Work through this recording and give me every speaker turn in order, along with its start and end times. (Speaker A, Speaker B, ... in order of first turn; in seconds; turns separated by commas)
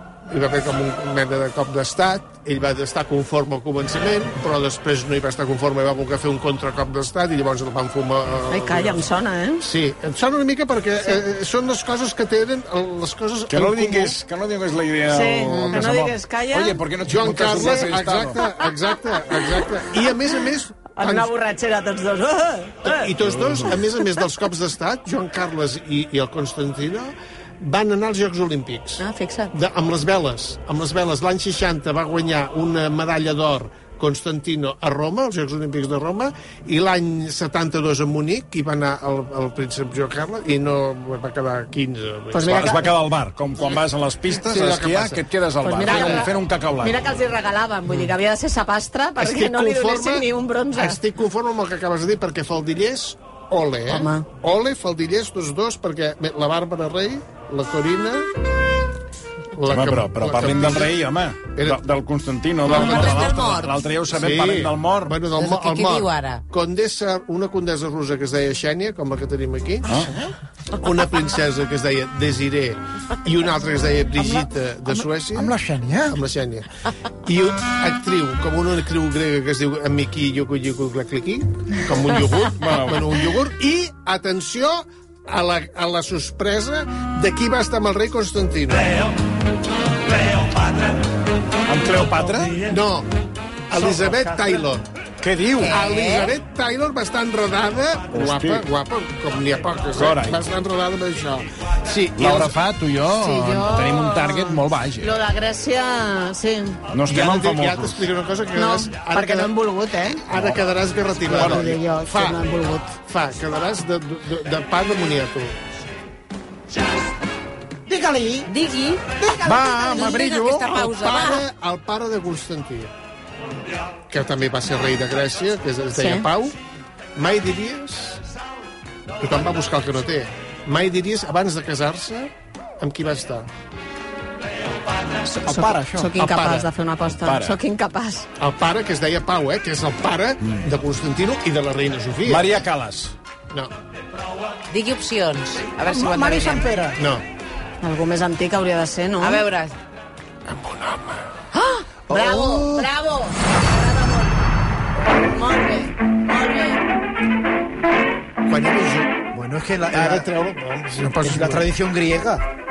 Speaker A: 0.3-9.0, Speaker B: 8.5-9.7, Speaker A: 9.6-14.2, Speaker C: 13.5-18.4, Speaker B: 15.1-16.8, Speaker A: 15.4-15.9, Speaker A: 17.0-21.3, Speaker B: 17.4-18.4, Speaker B: 20.9-23.1, Speaker A: 22.8-42.8, Speaker B: 29.0-29.5, Speaker B: 42.3-42.9, Speaker C: 42.5-47.0, Speaker A: 44.4-45.2, Speaker B: 45.6-51.0, Speaker A: 45.8-46.3, Speaker A: 49.2-58.3, Speaker B: 53.9-54.3, Speaker A: 59.5-61.0, Speaker C: 59.7-65.2, Speaker A: 61.5-61.8, Speaker D: 62.7-63.8, Speaker A: 62.7-63.3, Speaker A: 64.1-69.9, Speaker D: 65.3-66.4, Speaker E: 70.0-70.3, Speaker A: 70.8-75.5, Speaker E: 74.2-76.2, Speaker A: 76.1-76.7, Speaker A: 77.2-89.1, Speaker C: 82.6-83.2, Speaker C: 91.7-92.7, Speaker A: 92.7-93.1, Speaker A: 93.7-94.8, Speaker C: 95.2-95.8, Speaker D: 95.6-96.3, Speaker A: 95.7-102.5, Speaker C: 98.1-98.6, Speaker C: 99.9-100.5, Speaker C: 102.0-105.1, Speaker B: 103.1-106.8, Speaker C: 106.9-108.1, Speaker A: 107.1-109.5, Speaker B: 108.5-110.2, Speaker A: 110.3-112.4, Speaker C: 110.3-111.8, Speaker B: 111.3-112.9, Speaker A: 112.9-115.5, Speaker E: 117.9-118.4, Speaker D: 118.5-121.4, Speaker A: 119.3-122.9, Speaker E: 120.0-120.5, Speaker A: 124.1-126.5, Speaker B: 126.0-126.3, Speaker A: 127.2-128.2, Speaker A: 129.2-133.5, Speaker B: 135.3-138.3, Speaker E: 135.4-136.1, Speaker C: 137.1-137.6, Speaker A: 138.4-142.6, Speaker C: 142.2-143.1, Speaker D: 144.7-146.7, Speaker E: 145.9-147.0, Speaker A: 147.0-147.2, Speaker B: 147.8-149.4, Speaker D: 149.2-149.7, Speaker A: 150.5-151.2, Speaker B: 152.1-154.4, Speaker E: 152.1-152.9, Speaker B: 155.0-156.8, Speaker A: 158.5-159.1, Speaker E: 159.3-162.4, Speaker A: 159.9-161.7